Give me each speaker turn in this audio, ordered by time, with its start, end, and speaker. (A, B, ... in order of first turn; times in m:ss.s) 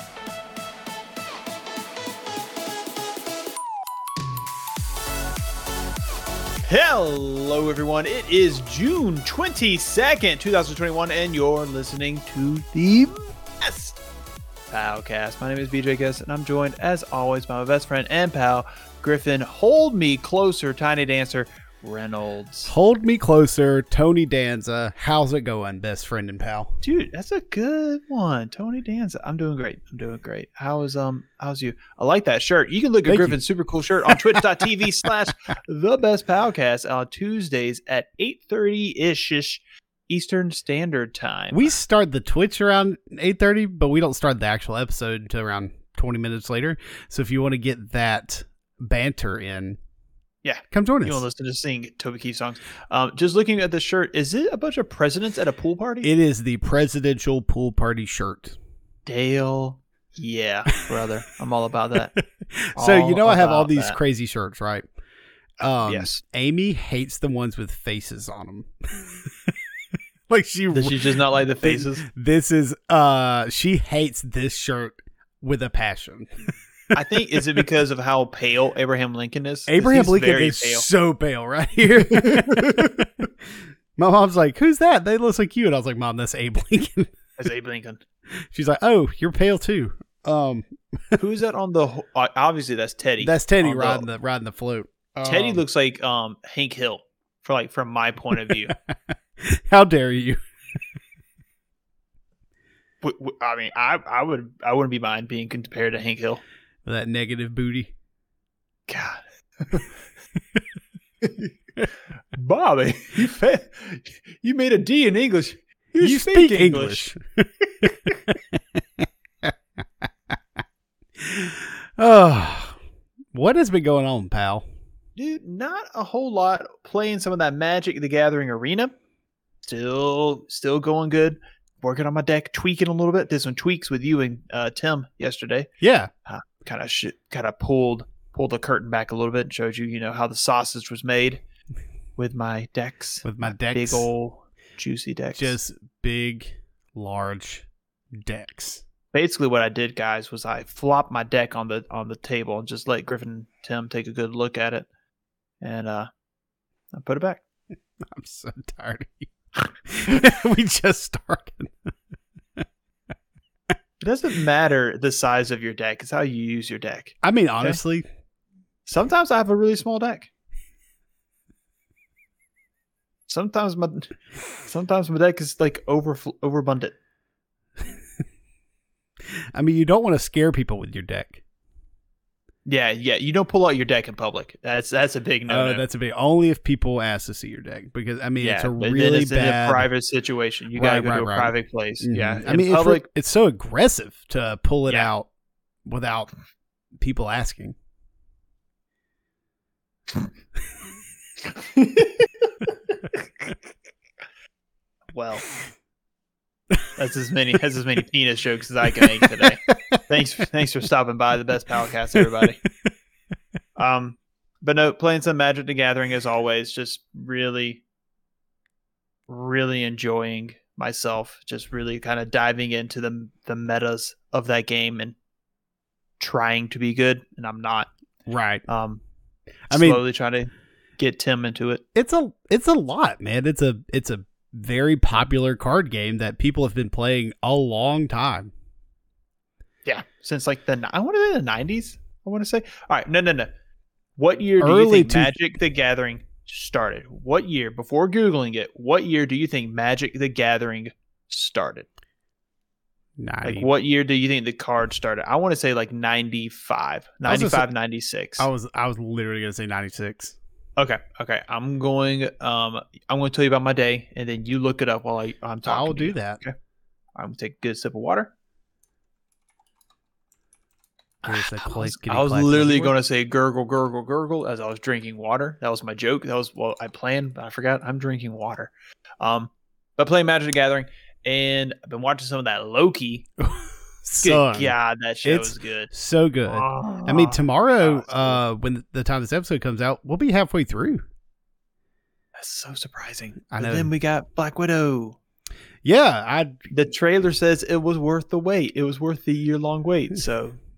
0:06.7-0:14.0 A
0:14.7-0:22.7 A
0:22.6-0:26.7 B
0:26.8-0:41.7 A
0:33.0-0:33.4 B
0:34.1-0:34.4 B
0:41.5-0:49.8 B
0:50.4-0:56.1 A
0:50.7-0:51.2 B
0:56.0-0:58.6 B
0:59.0-1:02.1 A
1:02.2-1:04.9 B
1:02.8-1:04.0 A
1:05.6-1:09.5 B
1:05.6-1:06.2 A
1:10.3-1:16.3 B
1:10.7-1:12.0 A
1:16.9-1:20.9 A
1:19.7-1:23.3 B
1:22.1-1:22.9 A
1:24.0-1:27.1 B
1:27.4-1:28.0 A
1:28.5-1:31.2 B
1:31.2-1:34.1 A
1:33.2-1:35.6 B
1:35.2-1:38.7 A
1:38.3-1:40.4 B
1:43.0-1:46.4 A
1:46.8-1:47.9 B
1:48.9-1:49.9 A
1:51.2-1:51.5 A
1:52.3-1:57.1 A
1:56.0-2:00.3 B
1:57.8-1:58.1 A
2:01.2-2:02.8 B
2:03.3-2:04.6 B
2:05.2-2:08.9 A
2:09.6-2:15.7 A
2:15.8-2:16.1 B
2:16.3-2:21.4 A
2:22.2-2:25.6 A
2:23.2-2:24.1 B
2:25.4-2:28.8 B
2:29.1-2:34.9 A
2:35.6-2:36.1 A
2:36.9-2:37.4 A
2:38.0-2:39.3 B
2:39.8-2:41.9 B
2:44.0-2:47.8 A
2:47.2-2:48.0 B
2:48.8-2:50.3 A
2:53.3-2:57.0 A
2:59.5-3:01.4 B
3:02.6-3:05.8 A
3:05.5-3:09.9 B
3:08.4-3:13.0 A
3:10.7-3:15.3 B
3:15.8-3:16.3 B
3:17.0-3:17.7 B
3:21.5-3:23.2 A
3:25.1-3:25.5 A
3:27.0-3:32.6 A
3:29.0-3:30.0 B
3:33.8-3:37.8 A
3:39.3-3:45.2 A
3:46.2-3:47.9 A
3:48.3-3:48.6 B
3:48.7-3:49.0 A
3:49.7-3:51.8 A
3:49.7-3:50.0 B
3:51.9-3:58.5 B
3:59.8-4:03.5 A
4:04.2-4:11.9 A
4:04.6-4:05.4 B
4:13.2-4:13.7 B
4:13.4-4:18.5 A
4:17.2-4:17.7 B
4:18.4-4:20.4 B
4:20.8-4:26.5 A
4:25.6-4:26.4 B
4:27.2-4:28.3 A
4:31.2-4:43.2 A
4:31.2-4:32.9 B
4:43.4-4:51.0 B
4:44.2-4:45.9 A
4:46.5-4:48.4 A
4:52.4-4:55.2 A
4:53.5-4:53.9 B
4:55.8-4:56.6 B
4:56.7-5:00.6 A